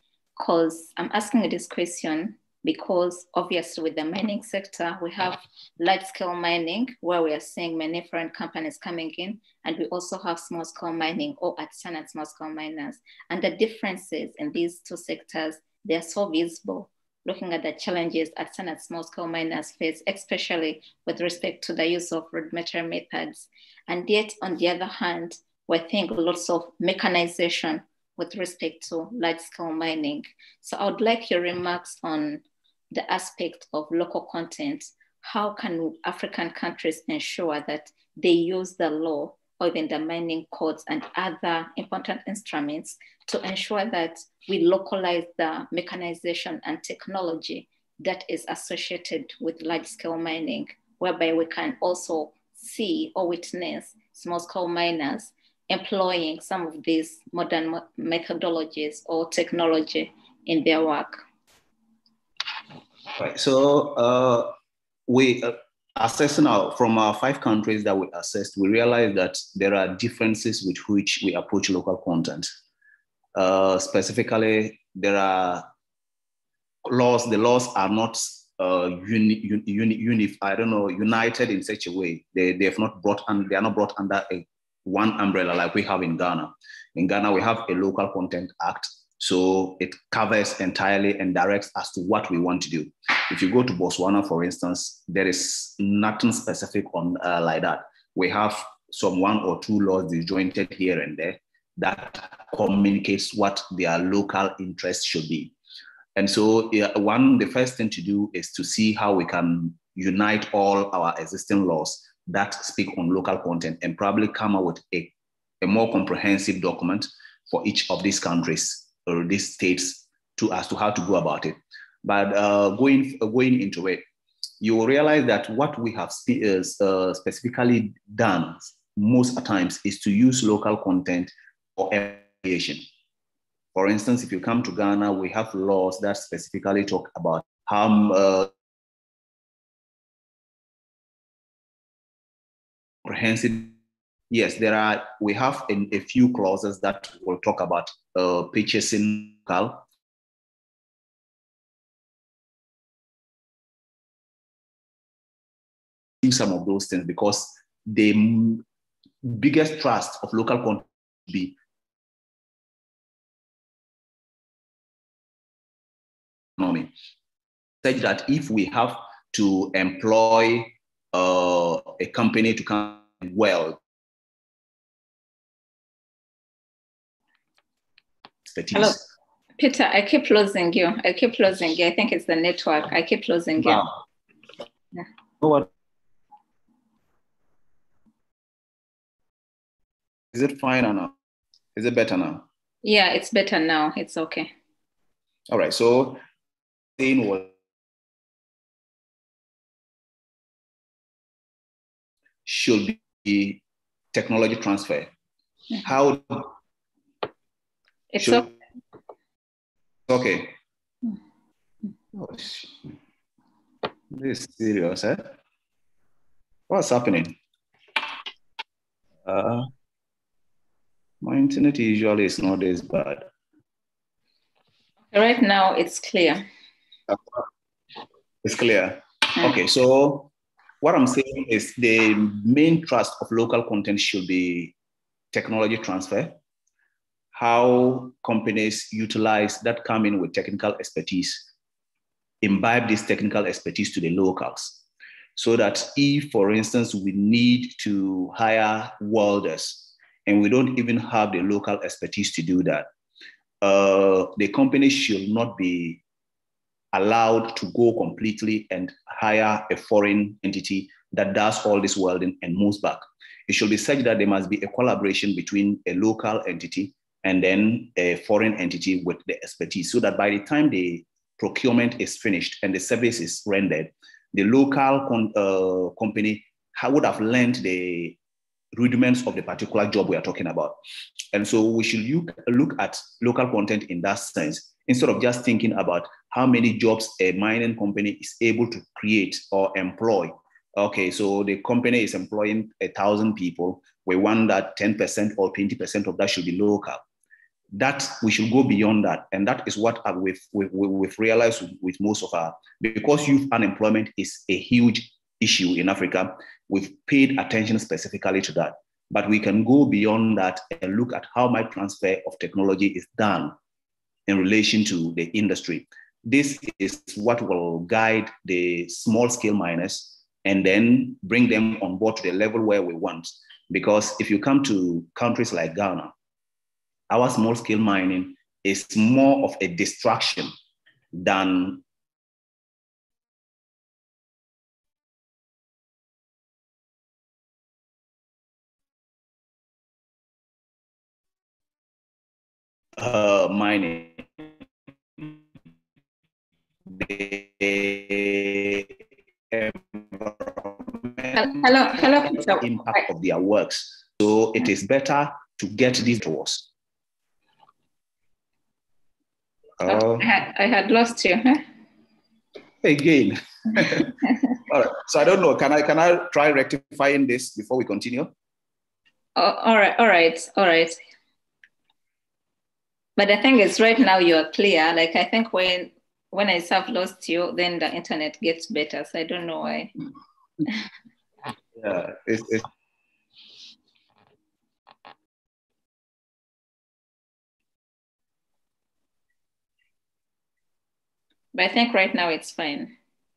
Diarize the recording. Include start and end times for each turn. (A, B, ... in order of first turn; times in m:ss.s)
0:00.4-1:01.2 A
1:03.2-1:04.5 B
1:05.1-1:12.5 B
1:13.3-1:15.6 B
1:16.8-1:45.5 B
1:46.2-2:04.0 B
2:04.6-2:12.8 B
2:13.7-2:18.5 B
2:23.0-2:23.8 B
2:24.3-2:29.8 B
2:36.2-2:38.6 B
2:39.2-2:41.6 B
2:46.6-2:46.9 B
2:47.8-2:53.8 B
2:58.5-2:59.0 B
2:59.6-3:03.8 A
3:03.6-3:03.9 B
3:05.4-3:05.7 B
3:10.3-3:11.1 B
3:11.7-3:12.5 B
3:12.8-3:14.5 A
3:15.5-3:16.2 B
3:17.0-3:17.5 B
3:22.4-3:25.1 B
3:25.8-3:26.5 B
3:28.1-3:28.5 A
3:28.2-3:28.5 B
3:30.1-3:30.5 B
3:32.1-3:32.9 B
3:34.1-3:35.2 B
3:36.7-3:37.3 B
3:39.2-3:39.7 B
3:41.2-3:43.3 B
3:45.1-3:46.4 A
3:47.1-3:47.4 B
3:48.4-3:50.3 B
3:50.8-3:54.7 B
3:55.3-3:56.4 B
3:57.3-4:01.5 B
4:02.4-4:04.8 B
4:05.4-4:12.9 B
4:13.6-4:16.0 B
4:16.9-4:38.2 B
4:38.8-4:40.8 B
4:41.3-4:57.0 B
4:57.7-5:13.5 B
5:14.3-5:26.1 B
5:27.1-5:30.5 B
5:31.1-5:31.8 B
5:43.0-5:44.5 B
5:46.8-5:56.7 B
5:51.3-5:53.0 A
5:59.8-6:00.3 B
5:59.8-6:01.6 A
6:02.8-6:08.3 B
6:09.4-6:11.0 A
6:13.2-6:19.9 A
6:21.8-6:22.6 B
6:31.5-6:32.9 A